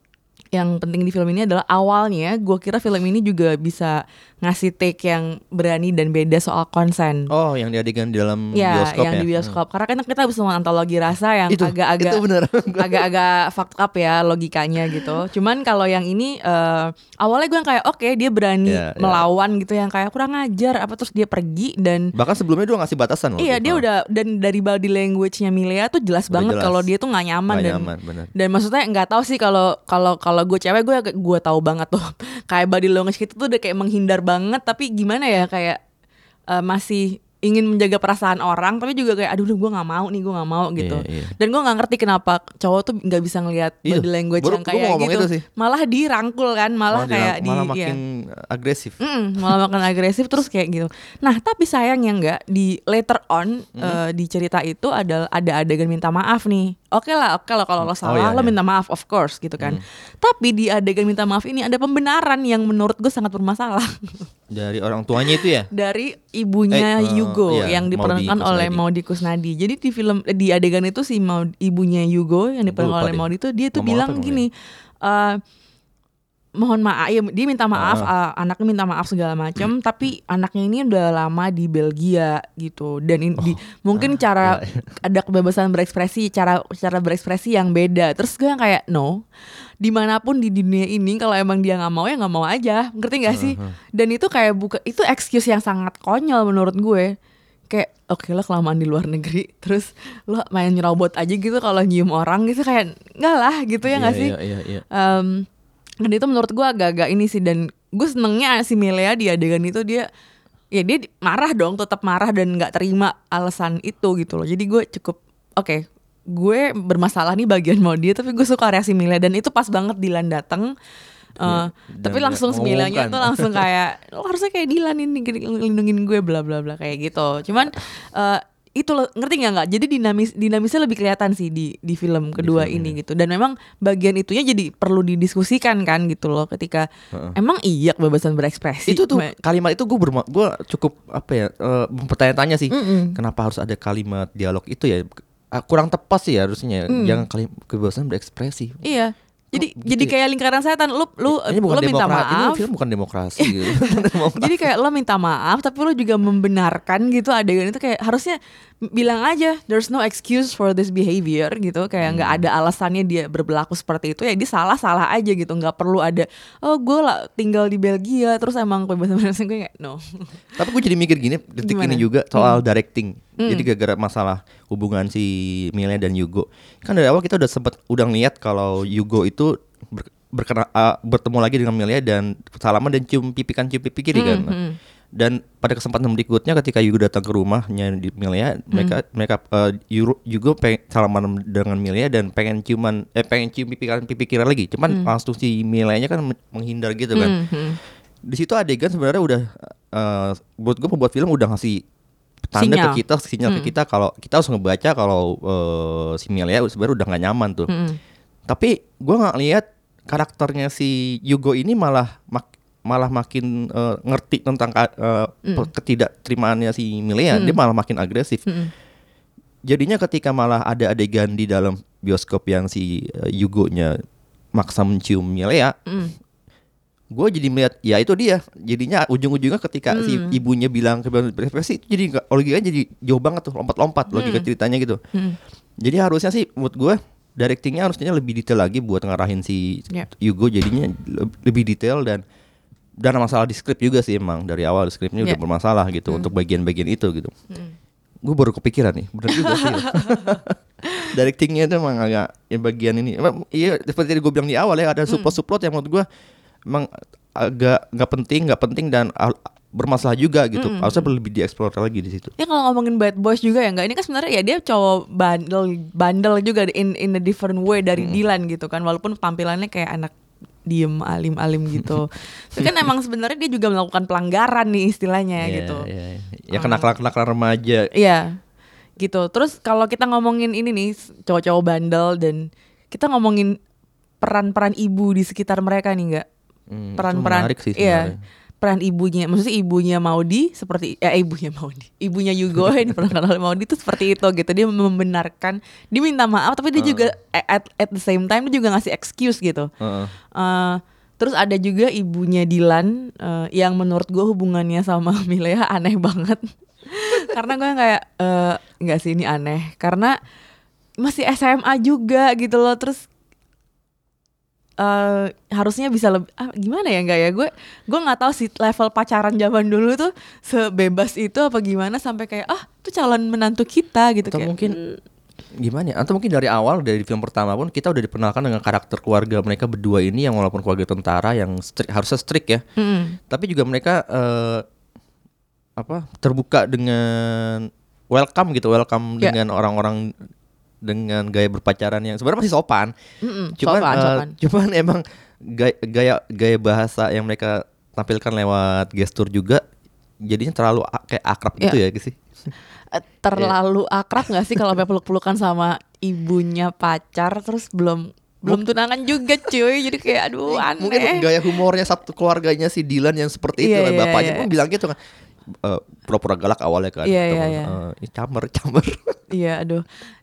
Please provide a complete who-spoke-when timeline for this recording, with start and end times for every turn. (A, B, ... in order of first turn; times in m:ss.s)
0:00.5-0:07.3 A
0:07.3-0:09.6 B
0:08.5-0:12.2 A
0:11.5-0:13.0 B
0:12.8-0:22.1 A
0:14.9-0:15.2 B
0:18.6-0:19.2 B
0:22.1-0:23.8 B
0:23.4-0:35.8 A
0:26.3-0:26.8 B
0:27.5-0:28.3 B
0:36.5-0:48.0 A
0:40.8-0:41.3 B
0:43.8-0:45.4 B
0:46.9-0:49.0 B
0:49.0-1:04.3 A
0:57.8-0:58.5 B
1:04.5-1:05.7 B
1:05.7-1:14.5 A
1:06.7-1:08.8 B
1:12.7-1:13.2 B
1:13.7-1:14.4 B
1:15.0-1:15.4 A
1:16.6-1:29.2 A
1:17.7-1:18.1 B
1:23.4-1:24.8 B
1:29.8-1:37.1 A
1:33.3-1:33.8 B
1:37.7-1:44.3 A
1:43.8-1:44.8 B
1:44.9-1:45.4 A
1:46.0-1:50.0 A
1:50.7-1:55.8 A
1:56.3-2:00.7 A
2:01.4-2:16.8 A
2:01.4-2:03.7 B
2:12.4-2:13.0 B
2:17.4-2:19.3 A
2:18.9-2:28.8 B
2:22.7-2:23.2 A
2:26.9-2:27.2 A
2:28.8-2:32.6 A
2:29.5-2:30.1 B
2:31.3-2:34.6 B
2:33.4-2:38.4 A
2:38.9-2:50.3 A
2:42.0-2:42.4 B
2:50.6-3:04.5 B
2:51.6-2:52.6 A
2:53.4-2:53.7 A
3:04.1-3:04.8 A
3:05.2-3:17.4 B
3:17.2-3:17.8 A
3:18.3-3:21.8 B
3:22.5-3:27.7 B
3:22.6-3:23.7 A
3:27.7-3:28.0 A
3:28.5-3:38.4 B
3:37.3-3:37.6 A
3:38.4-3:38.7 A
3:39.7-3:44.0 B
3:44.5-3:45.7 B
3:45.9-3:46.1 A
3:47.1-3:55.0 B
3:49.9-3:50.4 A
3:54.1-3:54.5 A
3:55.8-4:02.2 B
4:03.0-4:07.3 B
4:08.2-4:10.6 B
4:09.4-4:10.4 A
4:11.1-4:16.0 B
4:16.7-4:22.3 B
4:20.6-4:21.1 A
4:22.4-4:30.1 A
4:30.7-4:35.9 A
4:35.4-4:37.9 B
4:36.5-4:36.9 A
4:38.0-4:38.3 A
4:39.0-4:43.6 A
4:44.2-4:46.2 A
4:46.7-4:48.2 B
4:47.0-4:59.7 A
4:56.8-4:57.1 B
4:59.8-5:00.1 B
5:00.4-5:10.1 A
5:11.0-5:13.0 A
5:14.8-5:25.0 A
5:24.3-5:24.8 B
5:25.6-5:32.6 B
5:32.8-5:33.2 A
5:33.3-5:34.6 B
5:35.8-5:40.1 B
5:40.8-5:42.9 B
5:43.2-5:44.3 A
5:43.6-5:49.6 B
5:50.2-5:52.2 B
5:52.9-6:01.2 A
6:00.5-6:05.0 B
6:03.6-6:04.4 A
6:05.6-6:09.2 B
6:07.0-6:07.7 A
6:09.3-6:09.8 A